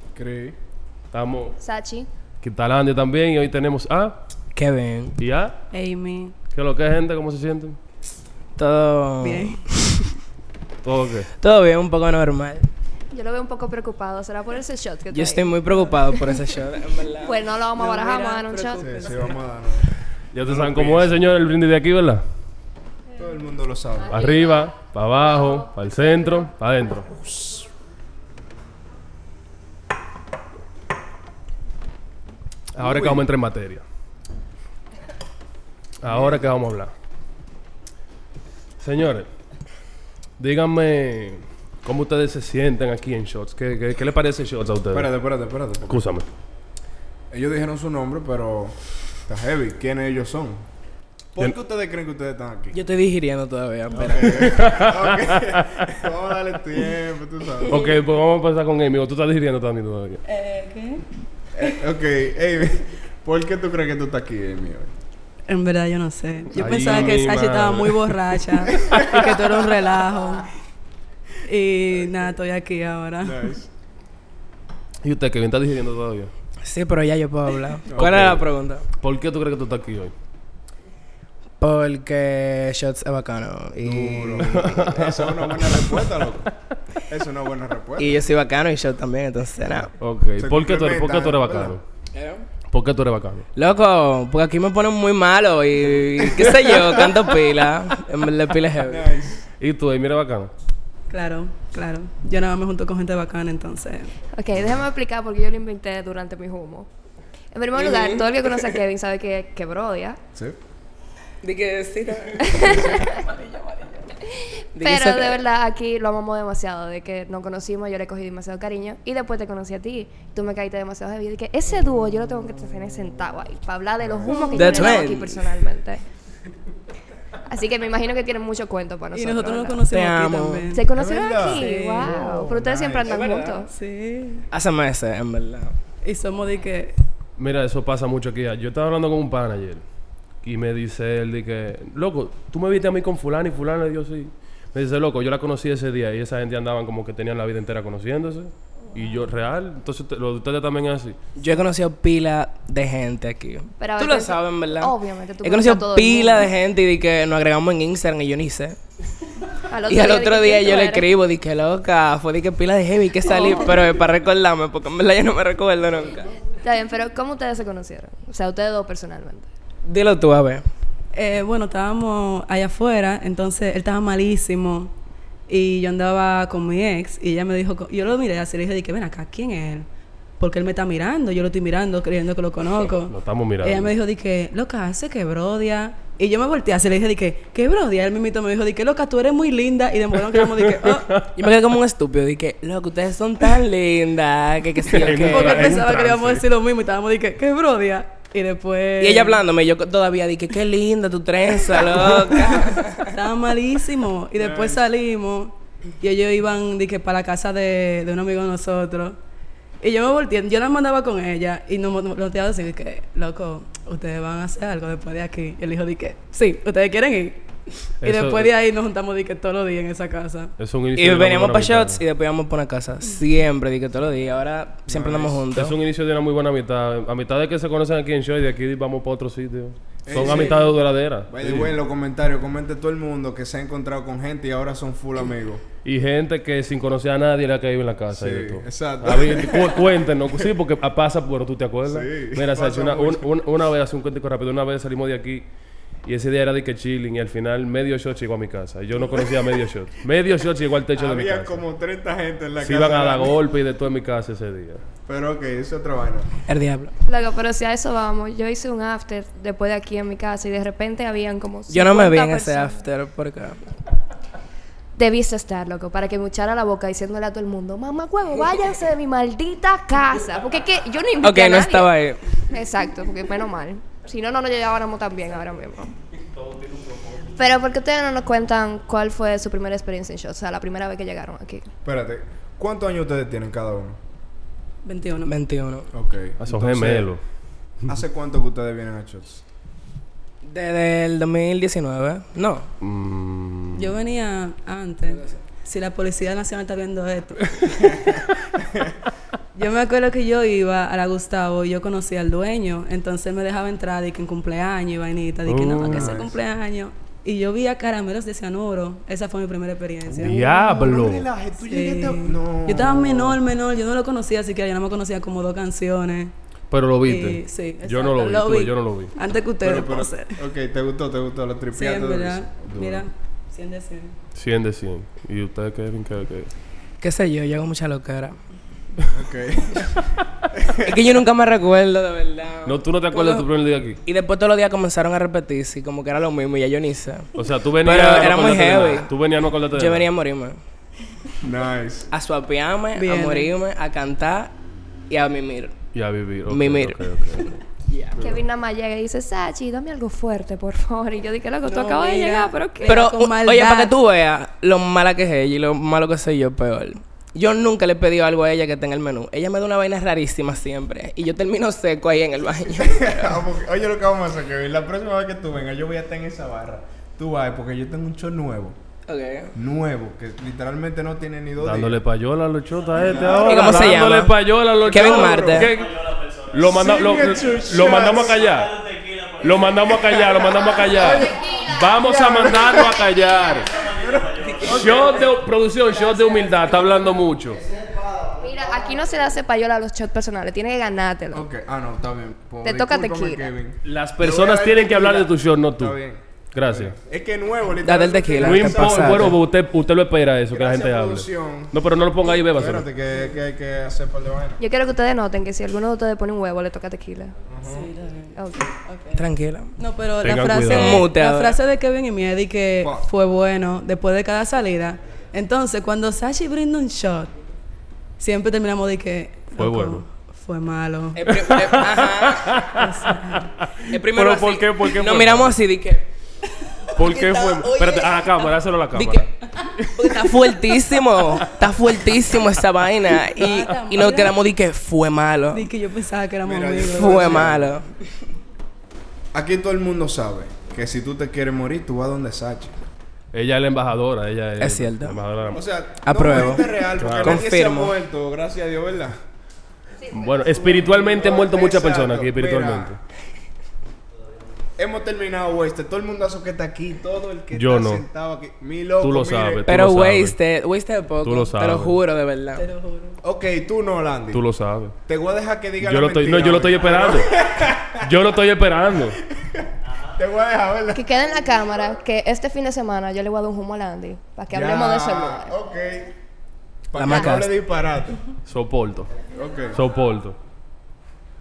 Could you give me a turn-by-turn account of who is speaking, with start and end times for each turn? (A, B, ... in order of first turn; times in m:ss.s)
0:00.1-0:00.6 A
0:01.1-0:01.6 B
0:01.6-0:02.1 C
0:02.4-0:04.2 B
0:04.6-0:05.2 D
0:05.2-0:05.6 B
0:05.7-0:06.3 E
0:06.5-0:07.8 B
0:08.6-0:09.7 D
0:09.2-0:10.1 E
0:10.8-0:11.3 B
0:11.4-0:12.7 D
0:13.1-0:15.6 C
0:15.1-0:17.4 D
0:15.7-0:16.4 E
0:17.2-0:19.0 C
0:17.7-0:19.4 E
0:18.8-0:21.2 A
0:20.3-0:22.2 B
0:23.2-0:24.2 A
0:24.1-0:24.7 C
0:24.1-0:27.1 B
0:25.2-0:25.7 C
0:27.0-0:27.7 A
0:32.7-0:33.8 B
0:32.8-0:33.3 A
0:36.0-0:36.9 B
0:36.0-0:36.5 A
0:38.8-0:39.3 B
0:40.4-0:45.1 B
0:44.9-0:46.0 A
0:45.9-0:46.3 B
0:47.3-0:50.6 A
0:51.3-0:52.8 A
0:52.7-0:54.4 D
0:53.9-0:57.8 A
0:54.2-0:55.9 B
0:57.7-1:00.2 B
1:00.2-1:01.0 E
1:01.5-1:04.9 A
1:05.5-1:10.5 E
1:06.6-1:08.2 B
1:08.8-1:09.2 A
1:11.4-1:13.5 E
1:13.2-1:13.7 A
1:15.0-1:16.3 B
1:16.6-1:18.8 D
1:17.9-1:18.4 A
1:18.0-1:18.4 B
1:19.0-1:20.1 B
1:21.6-1:24.9 D
1:23.8-1:26.5 A
1:24.5-1:25.8 B
1:27.1-1:28.2 A
1:28.0-1:29.9 D
1:30.0-1:31.8 B
1:30.4-1:31.7 A
1:32.1-1:32.4 D
1:32.7-1:33.4 B
1:33.6-1:39.1 D
1:36.2-1:36.9 A
1:38.8-1:39.4 A
1:39.6-1:40.5 B
1:41.1-1:44.1 E
1:44.3-1:46.9 C
1:47.5-1:50.2 C
1:47.7-1:48.7 D
1:51.4-1:54.1 D
1:52.4-1:53.3 C
1:54.3-2:06.0 C
1:54.7-1:55.4 D
2:04.0-2:04.9 A
2:04.5-2:05.4 D
2:07.5-2:09.8 C
2:09.1-2:10.8 E
2:09.9-2:10.7 D
2:10.7-2:13.7 C
2:10.9-2:13.2 A
2:11.4-2:12.6 E
2:13.1-2:13.5 D
2:13.7-2:14.4 E
2:14.5-2:15.7 D
2:16.0-2:16.9 E
2:17.4-2:19.8 B
2:20.4-2:31.2 B
2:31.4-2:38.8 D
2:33.8-2:36.5 C
2:39.7-2:41.1 C
2:39.9-2:46.3 D
2:43.2-2:43.9 C
2:46.6-2:49.5 C
2:49.8-2:50.6 D
2:51.1-2:54.9 E
2:55.5-2:59.9 E
3:00.4-3:11.1 E
3:03.1-3:03.9 B
3:10.3-3:11.3 B
3:11.4-3:15.8 D
3:14.9-3:16.4 B
3:15.2-3:19.4 E
3:19.0-3:23.1 D
3:22.5-3:29.2 E
3:24.4-3:24.8 A
3:29.8-3:37.4 E
3:38.0-3:40.5 E
3:38.0-3:38.5 B
3:40.6-3:42.0 B
3:41.0-3:45.8 D
3:44.9-3:45.4 A
3:45.5-3:51.7 B
3:50.0-3:50.6 A
3:51.3-3:55.6 A
3:55.8-4:05.5 B
3:58.1-3:59.8 A
4:01.8-4:03.3 A
4:06.0-4:11.6 B
4:10.9-4:13.4 A
4:12.6-4:14.8 B
4:15.1-4:16.3 A
4:16.5-4:16.9 D
4:17.1-4:22.8 C
4:21.7-4:23.6 D
4:25.0-4:35.9 C
4:31.2-4:32.2 D
4:36.4-4:37.2 B
4:37.4-4:41.7 C
4:41.8-4:44.0 A
4:44.8-4:45.3 E
4:45.2-4:45.9 D
4:45.9-4:47.1 A
4:46.4-4:47.2 B
4:47.8-4:49.4 A
4:50.4-4:52.7 D
4:52.8-4:53.9 B
4:53.7-4:57.9 E
4:55.1-4:55.4 D
4:59.5-5:10.6 E
5:05.4-5:06.2 B
5:05.8-5:06.4 A
5:10.2-5:13.4 A
5:10.2-5:11.3 B
5:11.6-5:16.3 E
5:16.7-5:19.1 B
5:17.1-5:20.4 E
5:19.6-5:23.0 A
5:21.7-5:24.1 E
5:24.3-5:26.5 B
5:27.0-5:28.4 D
5:29.1-5:29.9 A
5:30.5-5:31.0 A
5:30.8-5:33.4 D
5:32.6-5:34.0 B
5:34.0-5:37.3 D
5:37.4-5:40.1 B
5:37.8-5:39.1 D
5:39.7-5:40.6 D
5:41.4-5:42.1 A
5:42.1-5:44.5 D
5:42.9-5:43.5 E
5:45.1-5:45.7 D
5:45.9-5:47.6 B
5:46.5-5:48.2 D
5:48.2-5:53.0 C
5:51.6-5:53.9 E
5:52.8-6:03.4 D
6:02.8-6:08.8 A
6:09.1-6:09.5 D
6:09.5-6:12.0 A
6:11.6-6:23.8 B
6:12.9-6:14.0 A
6:13.4-6:14.3 D
6:14.9-6:15.7 A
6:14.9-6:15.7 D
6:16.6-6:18.5 A
6:20.0-6:21.4 A
6:20.8-6:22.0 C
6:21.9-6:22.9 A
6:22.7-6:23.8 C
6:23.8-6:25.3 A
6:24.6-6:27.6 B
6:28.4-6:31.4 C
6:31.3-6:39.4 A
6:32.6-6:33.5 C
6:33.8-6:36.0 B
6:36.5-6:37.0 B
6:37.8-6:39.4 D
6:38.4-6:42.9 B
6:40.5-6:41.8 A
6:42.4-6:44.6 A
6:44.6-6:47.3 C
6:47.5-6:47.9 A
6:47.6-6:48.3 E
6:48.3-6:48.7 C
6:48.8-6:49.2 E
6:49.1-6:49.7 D
6:49.8-6:57.3 E
6:50.2-6:51.1 B
6:50.6-6:51.6 D
6:52.8-6:53.1 A
6:58.2-7:01.3 E
6:59.6-7:00.0 B
7:01.1-7:02.6 D
7:01.3-7:02.8 B
7:02.7-7:03.6 E
7:03.6-7:05.6 B
7:03.9-7:06.0 D
7:06.9-7:10.1 B
7:07.0-7:09.3 D
7:10.0-7:15.7 D
7:13.3-7:14.4 E
7:15.5-7:17.5 E
7:16.4-7:17.7 A
7:16.9-7:17.8 D
7:19.3-7:22.7 A
7:23.3-7:25.6 B
7:24.6-7:25.2 D
7:25.5-7:29.2 A
7:26.0-7:27.9 D
7:27.0-7:27.4 B
7:30.0-7:30.9 C
7:30.1-7:33.0 B
7:31.0-7:32.9 A
7:34.8-7:39.6 A
7:37.5-7:38.0 B
7:39.0-7:40.4 B
7:39.6-7:42.6 D
7:41.2-7:42.0 B
7:42.5-7:43.2 E
7:43.2-7:44.4 A
7:44.3-7:44.9 B
7:45.0-7:48.1 A
7:45.8-7:49.2 B
7:49.3-7:51.1 A
7:50.9-7:55.5 C
7:54.5-7:56.1 A
7:56.9-7:58.2 A
7:57.0-7:57.5 D
7:57.1-7:57.4 C
7:58.4-7:59.1 B
7:59.3-7:59.8 A
7:59.7-8:00.4 B